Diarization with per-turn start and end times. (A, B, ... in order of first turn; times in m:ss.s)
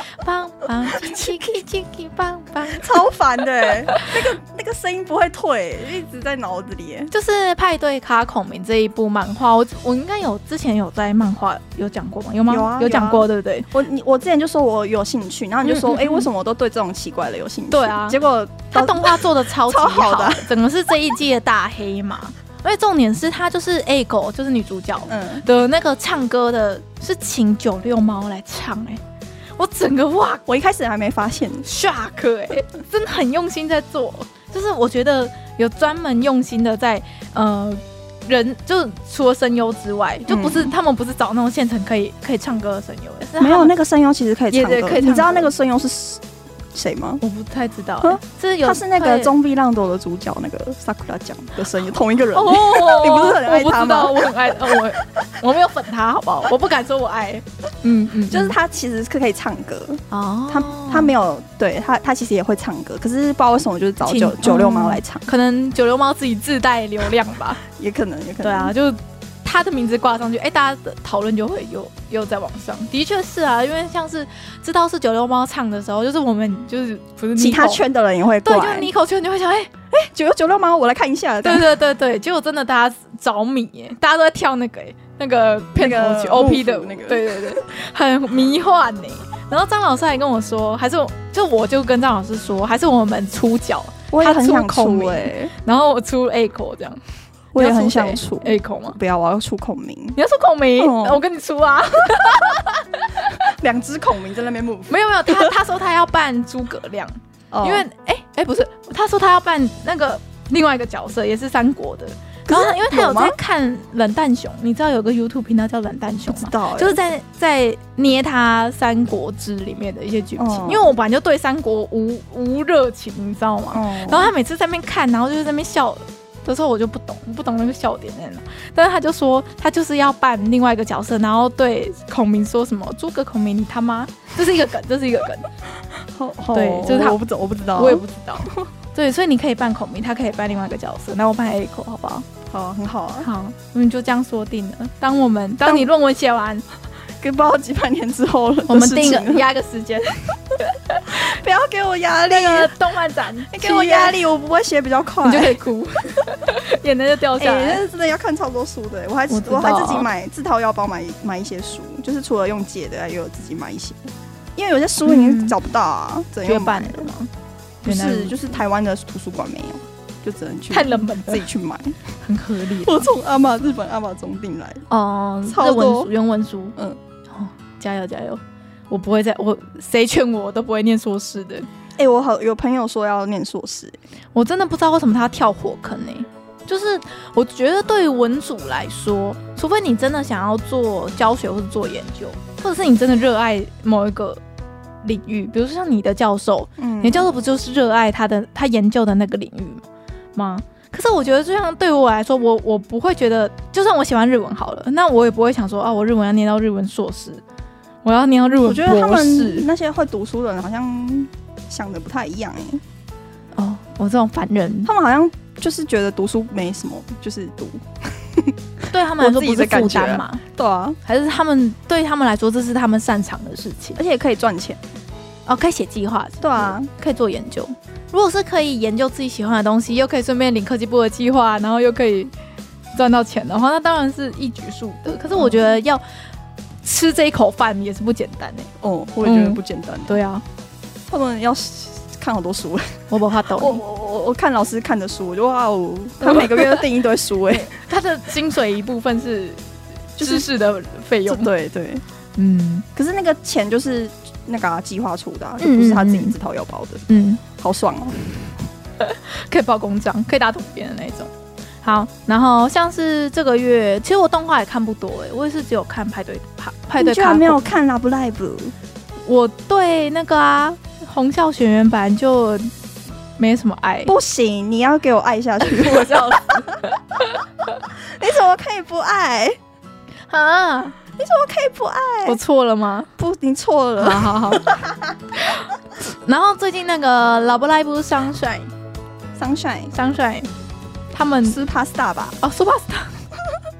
0:00.2-0:03.0 A
0:00.9-0:01.3 B
0:02.7-0:07.1 B
0:07.1-0:13.7 A
0:12.5-0:20.5 B
0:15.6-0:16.3 A
0:17.7-0:18.2 A
0:18.7-0:29.0 A
0:25.1-0:25.4 B
0:29.6-0:30.4 A
0:30.5-0:31.7 B
0:31.6-0:43.7 A
0:40.3-0:40.7 B
0:43.4-0:46.2 B
0:44.5-0:45.5 A
0:46.7-0:47.2 B
0:47.2-0:49.3 A
0:48.0-0:54.2 B
0:52.3-0:58.6 A
0:58.3-1:05.3 B
1:00.1-1:01.1 A
1:04.1-1:07.6 A
1:07.7-1:08.7 B
1:08.4-1:17.8 A
1:17.4-1:18.9 B
1:18.4-1:19.7 A
1:20.0-1:21.7 B
1:21.4-1:37.0 A
1:25.8-1:27.6 B
1:34.1-1:35.5 B
1:37.5-1:40.2 B
1:37.6-1:39.0 A
1:40.2-1:43.3 A
1:40.8-1:41.2 B
1:43.3-1:45.5 B
1:44.9-2:15.5 A
1:47.5-1:47.8 B
1:52.5-1:53.4 B
1:56.3-1:57.0 B
2:00.4-2:00.9 B
2:03.7-2:04.3 B
2:16.1-2:18.6 B
2:16.5-2:17.2 A
2:17.8-2:22.3 A
2:22.5-2:23.3 B
2:23.2-2:26.6 A
2:27.2-2:29.4 B
2:28.7-2:31.3 A
2:31.1-2:32.7 B
2:32.3-2:34.2 A
2:33.5-2:35.6 B
2:35.2-2:37.8 A
2:37.4-2:47.1 B
2:39.3-2:40.1 A
2:45.1-2:45.6 A
2:46.4-2:47.3 A
2:47.8-2:48.4 A
2:47.8-2:52.0 B
2:50.7-2:51.5 A
2:52.2-2:53.1 A
2:52.8-2:54.8 B
2:54.9-2:56.8 A
2:55.4-2:56.1 B
2:57.3-3:01.7 A
3:02.0-3:04.0 B
3:04.4-3:14.4 A
3:15.0-3:27.4 A
3:16.8-3:17.3 B
3:28.0-3:29.7 A
3:28.6-3:32.8 B
3:33.6-3:34.9 A
3:34.8-3:38.6 B
3:38.9-3:40.4 A
3:39.2-3:41.0 B
3:41.0-3:44.0 A
3:44.0-3:44.8 B
3:45.5-3:52.3 A
3:46.4-3:46.9 B
3:52.9-3:56.0 A
3:55.3-3:55.7 B
3:56.8-3:58.7 A
3:58.8-4:00.2 B
3:59.2-4:00.4 A
4:01.1-4:07.8 B
4:03.1-4:03.8 A
4:06.2-4:06.8 A
4:07.5-4:09.6 A
4:10.2-4:10.5 B
4:10.2-4:11.5 A
4:11.3-4:12.0 B
4:12.4-4:12.8 A
4:13.0-4:18.3 B
4:15.6-4:16.4 A
4:17.1-4:17.4 A
4:19.0-4:21.3 A
4:21.8-4:27.7 A
4:27.0-4:28.7 B
4:29.3-4:32.7 A
4:33.4-4:34.1 A
4:34.1-4:36.8 B
4:35.6-4:37.4 A
4:37.9-4:39.6 B
4:40.3-4:41.0 A
4:41.2-4:42.4 B
4:42.3-4:43.1 A
4:43.2-4:45.1 B
4:44.0-4:44.7 A
4:45.4-4:48.7 A
4:49.4-4:49.9 B
4:49.9-4:50.5 A
4:51.1-4:51.6 A
4:51.5-4:52.4 B
4:52.4-4:53.2 A